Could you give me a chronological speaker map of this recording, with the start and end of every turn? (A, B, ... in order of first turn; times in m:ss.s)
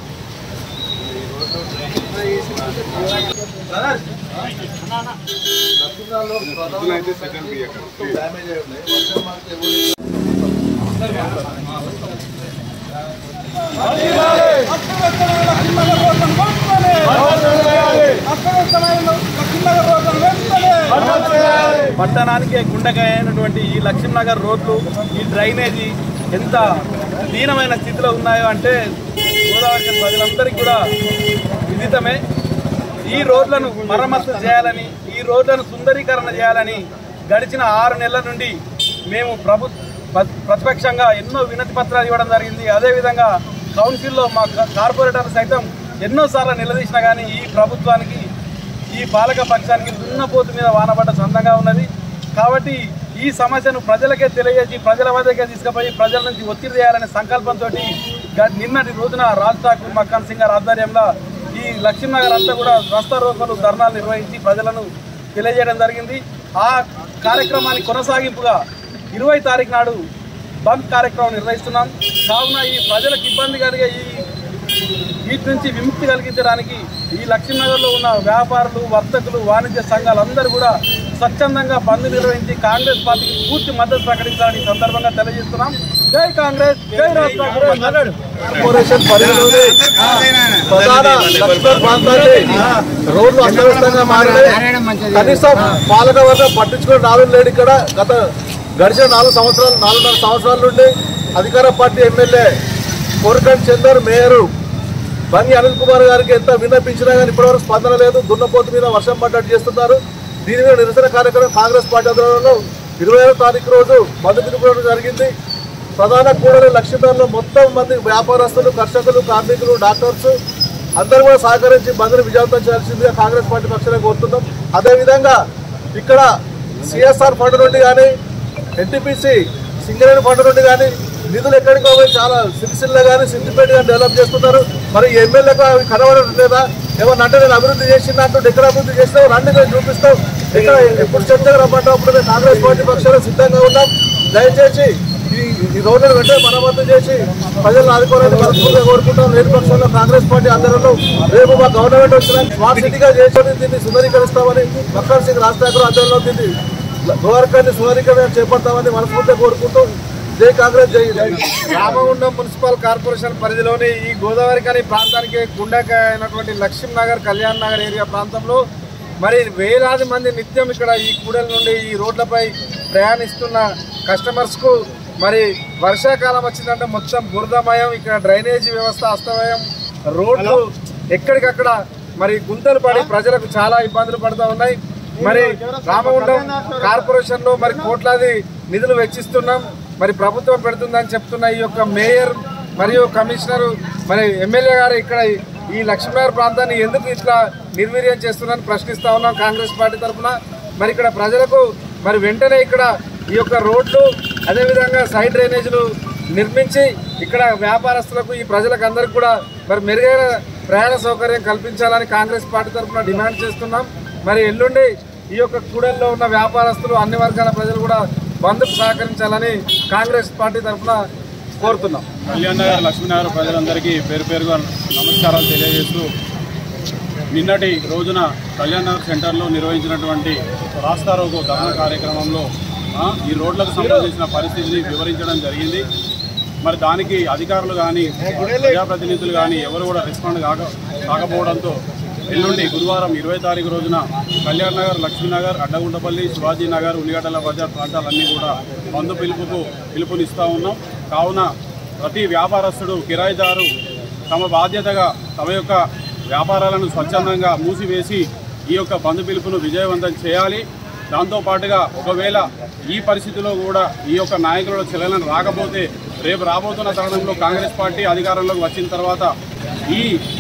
0:01.0-0:03.0 A
0:03.5-0:04.3 B
0:05.7-0:09.9 A
0:06.6-0:08.0 C
0:11.0-0:11.7 B
0:13.7-0:28.8 B
0:29.5-0:30.8 B
0:31.7-0:32.2 B
0:33.1-0:38.6 B
0:39.1-0:48.2 B
0:48.9-1:08.6 B
1:09.2-1:10.0 B
1:10.6-1:14.3 B
1:15.3-1:28.4 B
1:28.5-1:29.9 A
1:29.9-1:32.3 B
1:30.6-1:38.2 A
1:38.8-1:42.5 A
1:43.2-1:44.5 A
1:45.3-1:55.3 A
1:56.0-2:00.4 A
2:01.0-2:05.4 A
2:05.9-2:08.1 A
2:08.8-2:36.5 A
2:37.1-2:41.5 A
2:41.6-2:48.6 D
2:49.2-2:59.6 D
3:00.2-3:25.8 D
3:05.6-3:06.8 B
3:26.4-3:41.0 D
3:41.6-3:42.1 D
3:42.3-3:46.1 C
3:47.3-3:55.8 C
3:56.6-4:11.5 C
4:12.0-4:13.7 C
4:14.3-4:29.3 C